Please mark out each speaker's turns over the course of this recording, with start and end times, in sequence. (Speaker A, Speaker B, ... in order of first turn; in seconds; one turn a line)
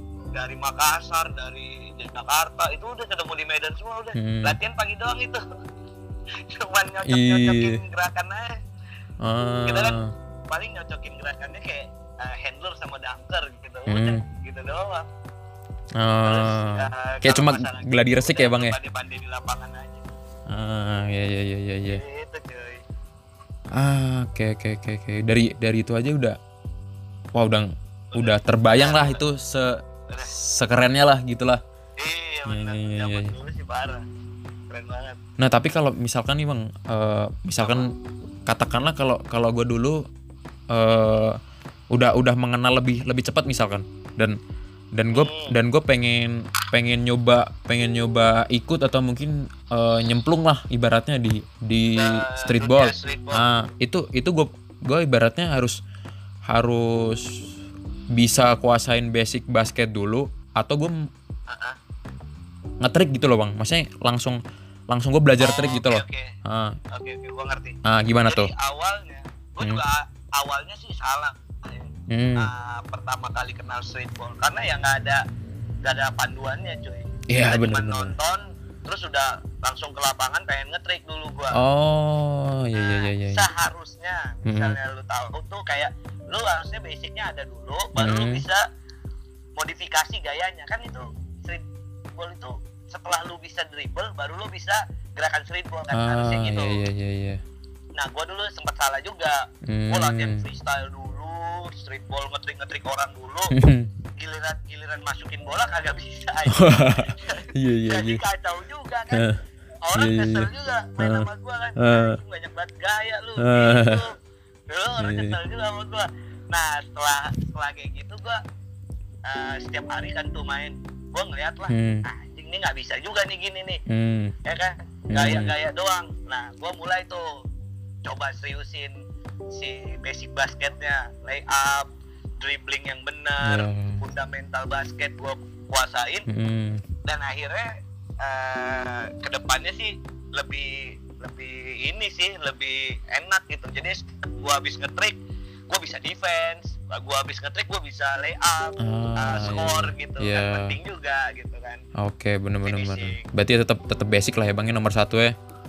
Speaker A: 0.3-5.4
Speaker B: 4.2-4.6
Speaker A: 6.5-8.5
Speaker B: 7.1-7.8
Speaker B: 9.2-10.1
Speaker A: 9.7-10.0
Speaker A: 10.5-15.1
Speaker B: 13.9-14.2
Speaker B: 16.0-18.8
Speaker A: 16.2-20.1
Speaker B: 20.5-22.0
Speaker A: 21.9-22.8
Speaker B: 23.7-26.4
Speaker B: 27.3-31.6
Speaker A: 28.1-29.2
Speaker A: 30.1-30.4
Speaker A: 32.0-34.0
Speaker B: 32.5-33.4
Speaker A: 34.7-35.2
Speaker B: 35.4-37.9
Speaker A: 37.6-37.9
Speaker B: 38.5-40.1
Speaker B: 40.7-41.4
Speaker B: 41.9-44.4
Speaker B: 44.9-55.8
Speaker A: 45.1-45.6
Speaker A: 51.9-53.6
Speaker B: 56.5-57.5
Speaker B: 58.1-61.0
Speaker A: 61.5-61.8
Speaker B: 62.8-66.8
Speaker A: 65.4-66.3
Speaker A: 66.9-75.2
Speaker B: 67.8-68.5
Speaker B: 72.1-72.5
Speaker A: 75.8-81.6
Speaker B: 77.3-78.2
Speaker B: 81.5-83.5
Speaker A: 82.8-88.6
Speaker B: 84.5-84.8
Speaker B: 88.0-88.5
Speaker A: 89.6-96.8
Speaker B: 95.9-97.4
Speaker A: 98.0-103.6
Speaker B: 99.7-100.5
Speaker B: 103.5-103.9
Speaker A: 104.2-109.3
Speaker B: 106.5-108.2
Speaker B: 109.1-109.4
Speaker A: 109.8-114.2
Speaker B: 110.0-112.2
Speaker B: 113.4-114.0
Speaker A: 114.7-118.4
Speaker B: 115.0-115.4
Speaker A: 119.3-123.8
Speaker B: 121.7-122.0
Speaker B: 123.9-124.3
Speaker A: 124.5-127.3
Speaker B: 125.1-125.5
Speaker A: 128.1-129.0
Speaker A: 129.5-136.3
Speaker B: 133.4-134.0
Speaker B: 136.3-136.8
Speaker A: 137.1-145.2
Speaker A: 145.7-151.8
Speaker B: 148.8-150.8
Speaker B: 152.0-155.3
Speaker A: 152.6-153.2